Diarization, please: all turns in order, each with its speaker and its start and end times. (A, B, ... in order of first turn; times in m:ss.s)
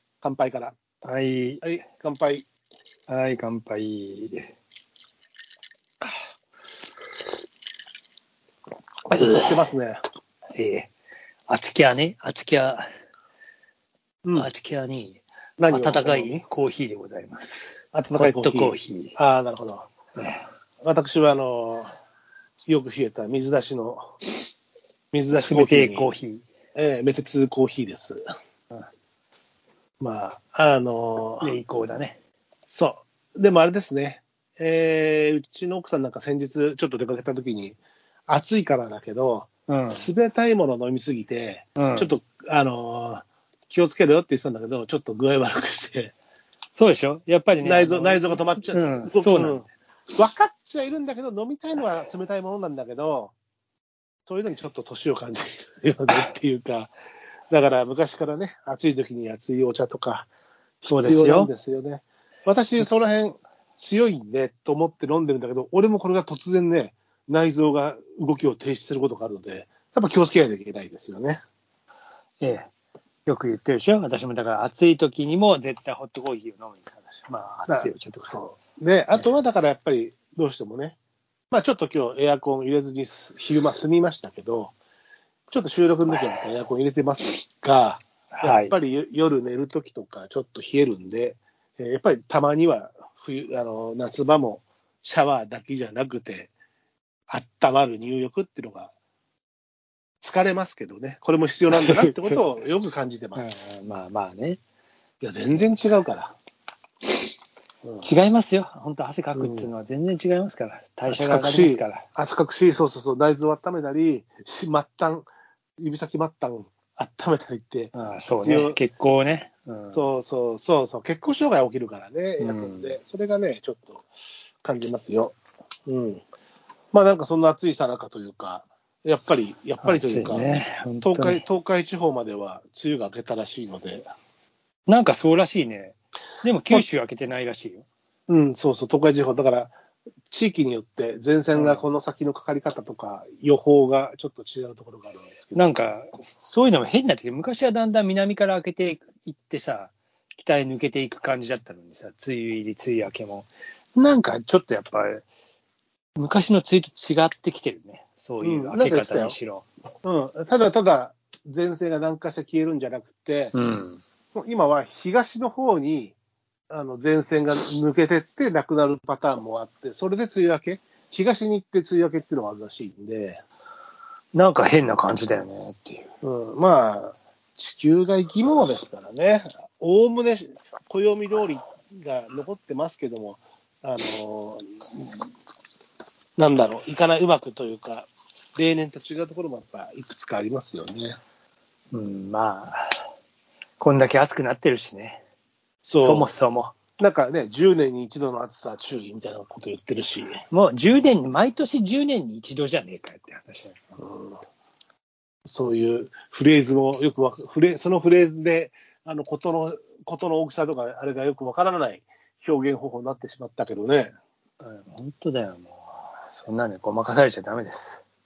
0:00.2-0:00.7 A
0:01.0-0:01.6 B
0:01.6-0:02.5 A
0:03.1-0:04.5 B
0:09.1-0:09.5 B
0:09.1-0:10.0 A
0:10.6-0:10.9 B
0:11.5-0:12.9 B
0:14.4-0:19.2 B
0:15.6-0:16.4 A
0:17.9-0:19.9 A
0:20.2-0:20.5 B
0:20.8-0:21.9 A
0:22.7-0:24.1 A
0:25.1-0:26.1 A
0:25.3-0:26.5 B
0:26.8-0:28.2 A
0:30.0-0:31.5 A
0:31.4-0:32.2 B
0:32.7-0:46.1 A
0:39.7-0:40.1 B
0:41.8-0:42.1 B
0:46.8-0:49.6 B
0:47.6-0:53.3 A
0:54.3-0:56.9 A
0:57.5-1:00.3 A
1:00.8-1:11.4 A
1:00.9-1:01.5 B
1:12.4-1:12.7 B
1:13.3-1:18.4 B
1:17.7-1:21.0 A
1:21.5-1:24.7 A
1:25.5-1:36.5 A
1:28.3-1:28.8 B
1:37.3-1:38.9 A
1:40.2-1:43.5 A
1:41.7-1:42.5 B
1:43.4-1:44.6 B
1:45.2-1:46.3 A
1:48.0-1:52.1 B
1:49.4-1:49.7 A
1:51.1-1:58.8 A
1:57.9-2:00.1 B
1:59.9-2:04.1 A
2:02.4-2:02.9 B
2:04.6-2:06.2 A
2:06.9-2:14.1 A
2:09.8-2:11.4 B
2:14.9-2:17.9 B
2:18.3-2:19.8 A
2:20.3-2:25.7 A
2:21.5-2:21.9 B
2:25.5-2:35.2 B
2:36.2-2:39.7 B
2:38.4-2:39.4 A
2:40.0-2:43.5 A
2:43.5-2:44.0 B
2:44.4-2:46.2 A
2:46.7-2:53.4 A
2:54.3-2:56.1 B
2:56.2-3:05.2 A
3:06.4-3:11.2 A
3:11.9-3:12.9 B
3:13.8-3:15.2 B
3:15.8-3:16.3 A
3:16.0-3:16.7 B
3:17.0-3:20.4 A
3:20.5-3:24.0 B
3:24.0-3:24.4 A
3:25.5-3:34.1 A
3:34.6-3:38.0 B